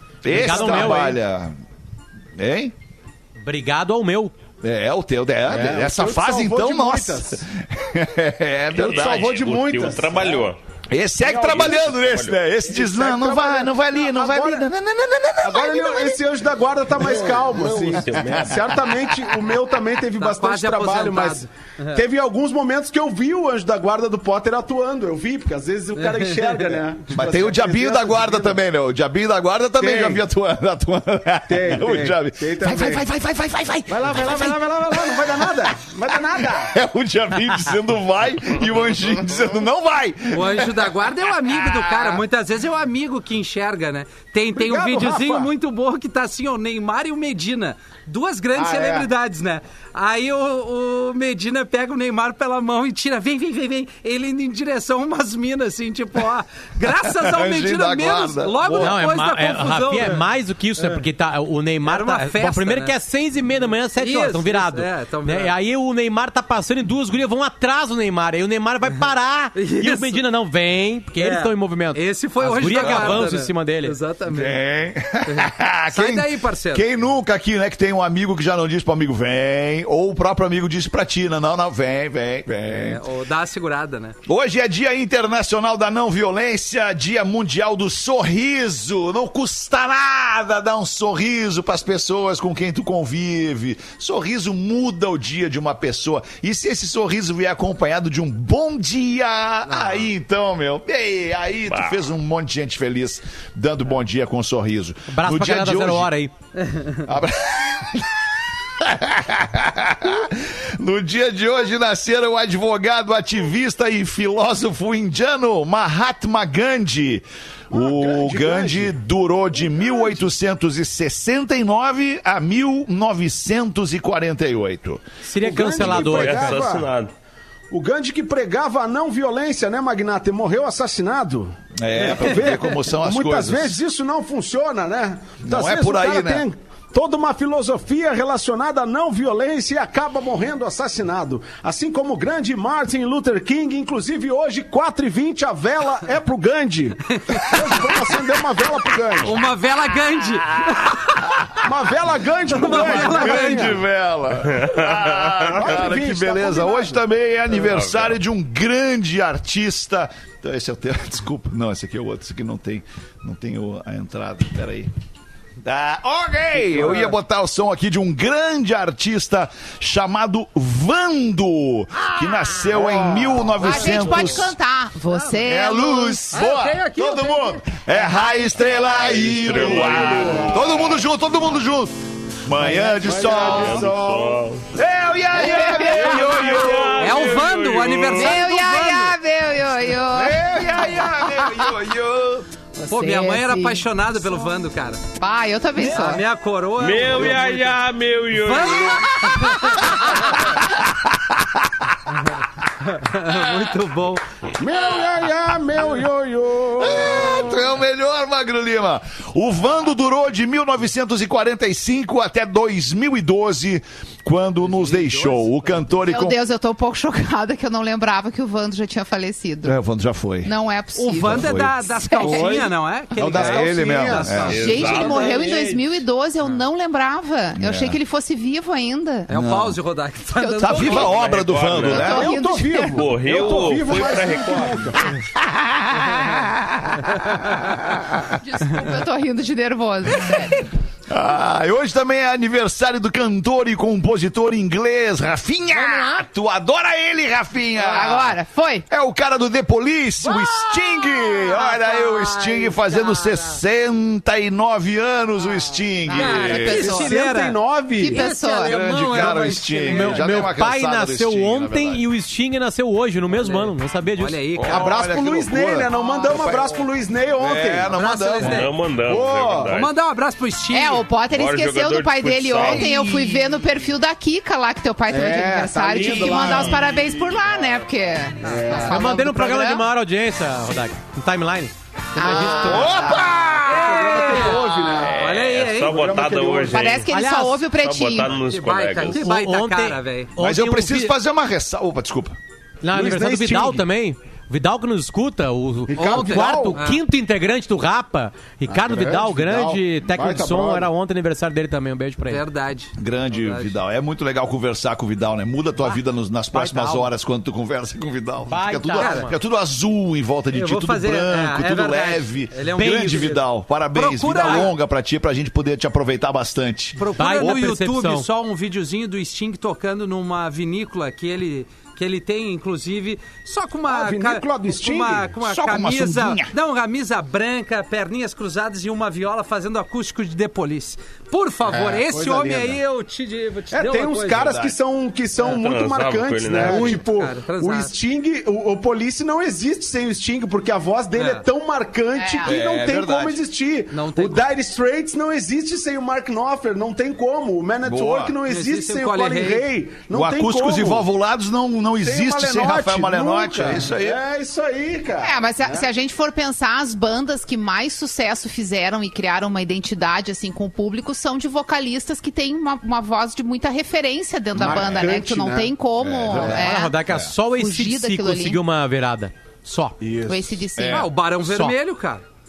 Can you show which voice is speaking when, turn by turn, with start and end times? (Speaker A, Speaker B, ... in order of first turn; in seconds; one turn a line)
Speaker A: 0.2-1.6
Speaker B: 0.3-1.1
Speaker C: 0.6-0.8
Speaker A: 2.4-2.7
Speaker B: 3.4-4.3
Speaker A: 4.6-9.3
Speaker C: 5.5-7.4
Speaker C: 8.7-10.5
Speaker D: 8.8-10.6
Speaker A: 10.9-16.2
Speaker C: 11.2-12.0
Speaker D: 11.4-12.3
Speaker C: 12.6-14.6
Speaker C: 15.4-28.6
Speaker A: 17.0-19.5
Speaker D: 17.7-18.7
Speaker E: 20.2-22.0
Speaker E: 25.9-26.8
Speaker A: 27.1-35.7
Speaker C: 29.8-30.2
Speaker C: 31.5-33.0
Speaker C: 33.9-36.8
Speaker A: 36.5-42.2
Speaker E: 40.3-60.2
Speaker C: 44.5-45.5
Speaker C: 48.6-49.1
Speaker A: 56.9-59.0
Speaker B: 58.8-73.9
Speaker E: 61.8-62.9
Speaker E: 64.0-65.5
Speaker E: 69.6-70.2
Speaker E: 71.2-74.6
Speaker A: 72.8-73.2
Speaker A: 74.3-83.0
Speaker E: 75.2-76.8
Speaker E: 82.7-84.2
Speaker A: 84.2-106.1
Speaker E: 99.7-100.0
Speaker D: 101.7-102.0
Speaker B: 105.1-106.3
Speaker E: 106.6-107.0
Speaker A: 107.1-126.0
Speaker C: 117.7-118.9
Speaker C: 119.7-120.2
Speaker B: 125.2-126.6
Speaker C: 125.4-126.9
Speaker D: 125.7-127.1
Speaker C: 127.7-149.3
Speaker A: 131.8-133.8
Speaker A: 135.4-136.4
Speaker E: 149.2-151.3
Speaker A: 150.5-151.6
Speaker C: 151.6-153.8
Speaker E: 152.5-153.8
Speaker A: 152.5-164.9
Speaker D: 154.5-155.5
Speaker C: 155.4-157.0
Speaker D: 157.5-158.2
Speaker A: 165.6-174.5
Speaker C: 172.8-173.5
Speaker F: 173.6-176.3
Speaker E: 173.7-174.3
Speaker A: 175.4-184.0
Speaker E: 176.3-178.5
Speaker F: 178.5-179.2
Speaker D: 179.0-180.6
Speaker C: 179.5-180.9
Speaker C: 182.6-184.4
Speaker D: 183.3-184.7
Speaker A: 184.7-187.3
Speaker F: 185.3-186.5
Speaker D: 186.5-188.4
Speaker E: 187.0-189.2
Speaker F: 188.1-191.7
Speaker A: 190.1-192.5
Speaker F: 192.8-193.8
Speaker E: 192.9-195.0
Speaker F: 195.2-196.2
Speaker E: 195.8-197.8
Speaker D: 196.8-199.0
Speaker E: 198.3-200.2
Speaker F: 199.2-199.9
Speaker A: 201.0-201.6
Speaker E: 202.9-204.2
Speaker C: 204.6-207.6
Speaker A: 206.8-216.4
Speaker E: 214.6-216.0
Speaker F: 216.1-219.8
Speaker A: 219.6-220.5
Speaker F: 220.4-222.6
Speaker E: 220.9-225.8
Speaker A: 221.2-221.7
Speaker C: 222.2-224.7
Speaker A: 223.2-224.9
Speaker D: 224.5-225.5
Speaker F: 224.5-229.3
Speaker A: 227.6-228.0
Speaker E: 229.3-231.1
Speaker A: 229.3-229.8
Speaker F: 230.4-231.3
Speaker A: 230.6-232.3
Speaker D: 231.0-232.2
Speaker C: 231.8-235.1
Speaker F: 231.8-233.1
Speaker D: 232.8-234.9
Speaker A: 235.1-238.4
Speaker F: 238.3-240.6
Speaker A: 241.1-256.8
Speaker E: 245.8-246.0
Speaker F: 247.8-248.8
Speaker E: 251.4-253.6
Speaker F: 256.1-257.2
Speaker E: 256.1-257.6
Speaker C: 256.8-258.3
Speaker F: 258.0-258.8
Speaker E: 258.1-260.5
Speaker A: 258.6-262.1
Speaker B: 258.9-259.3
Speaker B: 259.9-264.4
Speaker E: 263.3-265.0
Speaker A: 264.6-266.7
Speaker C: 264.7-267.9
Speaker E: 265.9-266.9
Speaker A: 267.4-268.7
Speaker E: 267.9-268.7
Speaker D: 268.4-269.9
Speaker C: 269.0-269.8
Speaker E: 269.7-271.1
Speaker F: 270.7-279.3
Speaker D: 271.3-272.9
Speaker A: 272.6-273.5
Speaker C: 275.1-276.8
Speaker A: 276.0-276.8
Speaker D: 276.3-276.8
Speaker E: 278.4-278.9
Speaker C: 278.4-279.1
Speaker B: 278.9-283.0
Speaker A: 279.1-279.9
Speaker A: 282.2-284.9
Speaker C: 283.6-285.2
Speaker E: 283.6-286.3
Speaker D: 285.0-287.1
Speaker C: 285.9-286.9
Speaker F: 286.7-288.4
Speaker B: 287.1-287.6
Speaker D: 287.7-289.3
Speaker E: 288.4-290.3
Speaker B: 289.1-291.1
Speaker A: 290.4-292.4
Speaker B: 292.8-302.4
Speaker C: 292.9-293.8
Speaker C: 295.9-296.8
Speaker E: 295.9-297.0
Speaker C: 298.7-300.9
Speaker E: 302.3-303.8
Speaker A: 303.0-317.7
Speaker B: 306.5-307.1
Speaker B: 308.5-309.4
Speaker E: 309.0-309.3
Speaker E: 310.5-313.4
Speaker B: 312.8-313.4
Speaker E: 313.9-314.7
Speaker E: 317.0-334.6
Speaker B: 317.2-318.2
Speaker C: 323.9-325.3
Speaker A: 325.4-326.5
Speaker C: 331.7-332.8
Speaker C: 333.7-351.0
Speaker A: 334.4-334.8
Speaker D: 335.4-337.0
Speaker E: 336.6-337.9
Speaker E: 341.1-341.4
Speaker F: 342.1-342.6
Speaker A: 342.4-343.4
Speaker E: 343.9-344.5
Speaker A: 347.8-348.4
Speaker E: 348.4-349.7
Speaker A: 350.1-354.2
Speaker C: 352.0-355.9
Speaker F: 355.2-368.6
Speaker C: 364.5-365.7
Speaker A: 364.6-365.0
Speaker A: 366.0-367.4
Speaker C: 366.3-366.7
Speaker B: 366.5-369.9
Speaker C: 370.0-370.5
Speaker F: 370.3-371.1
Speaker A: 370.8-371.1
Speaker E: 370.9-372.2
Speaker B: 371.5-371.8